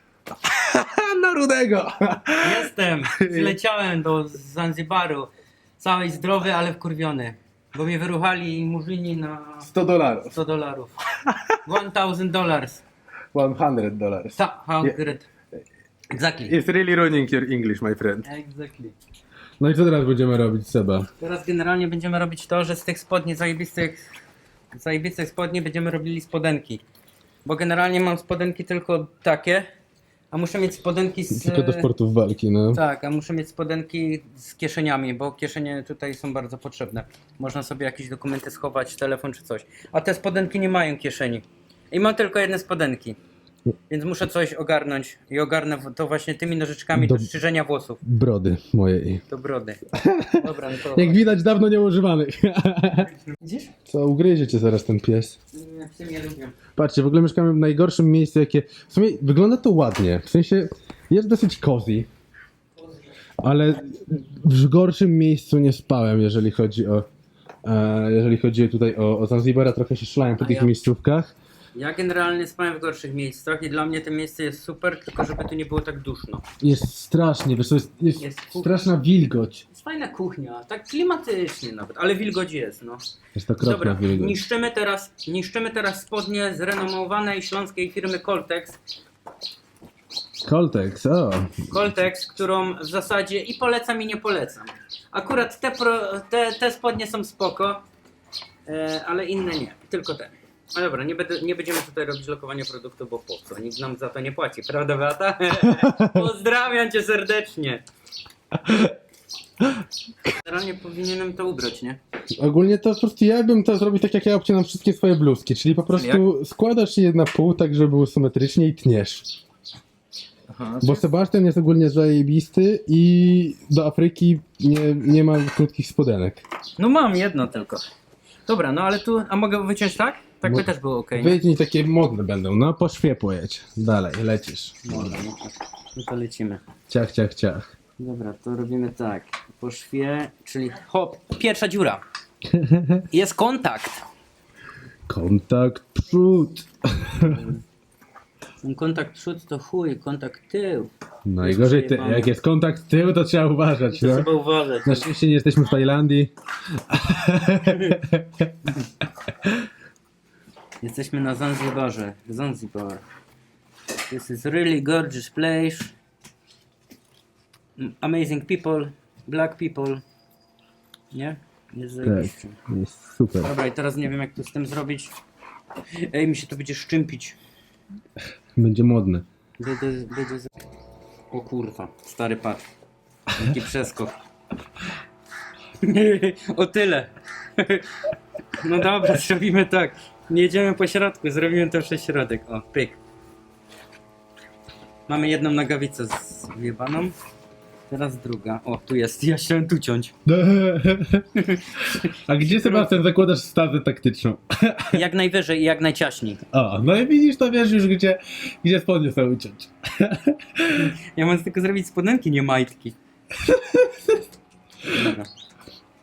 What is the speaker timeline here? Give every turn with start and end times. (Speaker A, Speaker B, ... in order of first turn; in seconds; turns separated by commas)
Speaker A: 0.3-3.5, Speaker B: 2.4-9.7, Speaker A: 9.6-10.3, Speaker B: 10.2-11.0, Speaker B: 11.6-12.8, Speaker A: 13.3-15.0, Speaker B: 14.3-15.3, Speaker B: 16.1-16.6, Speaker A: 16.4-18.2, Speaker B: 18.2-18.9, Speaker A: 19.6-21.1, Speaker B: 21.2-24.0, Speaker B: 24.7-26.8, Speaker B: 27.4-29.7, Speaker B: 30.3-31.9, Speaker A: 31.3-32.8, Speaker B: 32.7-43.2, Speaker B: 43.9-48.0, Speaker A: 46.9-47.3, Speaker A: 48.0-49.2, Speaker B: 49.3-49.8, Speaker A: 49.9-53.1, Speaker B: 50.3-51.2, Speaker B: 53.3-53.7, Speaker A: 53.9-55.4, Speaker B: 55.5-56.6, Speaker A: 56.8-62.1, Speaker A: 63.4-67.0, Speaker A: 67.6-71.3, Speaker B: 70.4-70.7, Speaker B: 71.7-76.4, Speaker A: 76.6-79.6, Speaker B: 78.2-78.7, Speaker B: 79.7-83.0, Speaker A: 83.3-84.4, Speaker B: 83.6-88.8, Speaker A: 90.4-91.8, Speaker B: 91.7-97.8, Speaker B: 98.7-107.8, Speaker A: 105.8-106.2, Speaker A: 108.5-108.9, Speaker B: 110.3-112.0, Speaker A: 112.4-119.3, Speaker B: 115.9-116.2, Speaker B: 120.5-121.1, Speaker A: 120.8-126.4, Speaker B: 126.8-127.8, Speaker B: 128.4-131.4, Speaker A: 130.4-135.1, Speaker B: 134.8-136.6, Speaker A: 136.9-137.7, Speaker B: 138.0-142.0, Speaker A: 142.5-143.0, Speaker B: 143.1-144.0, Speaker A: 145.1-147.4, Speaker B: 147.3-147.6, Speaker B: 148.6-150.9, Speaker A: 151.2-154.3, Speaker B: 151.4-152.3, Speaker B: 153.9-155.1, Speaker A: 154.8-158.5, Speaker B: 157.6-158.0, Speaker B: 160.8-163.0, Speaker B: 164.1-165.9, Speaker B: 167.8-170.0, Speaker B: 171.1-172.6, Speaker A: 172.0-173.5, Speaker B: 173.4-175.1, Speaker B: 176.0-177.4, Speaker A: 178.6-179.2, Speaker B: 179.6-180.5, Speaker B: 181.3-182.6, Speaker B: 183.3-184.2, Speaker B: 185.8-187.9, Speaker B: 188.6-193.0, Speaker B: 195.1-197.1, Speaker B: 197.9-200.1, Speaker A: 200.2-201.2, Speaker B: 201.3-203.0, Speaker A: 202.2-205.0, Speaker B: 204.9-206.4, Speaker A: 206.5-210.8, Speaker B: 210.7-213.0, Speaker A: 213.4-214.2, Speaker B: 214.8-215.3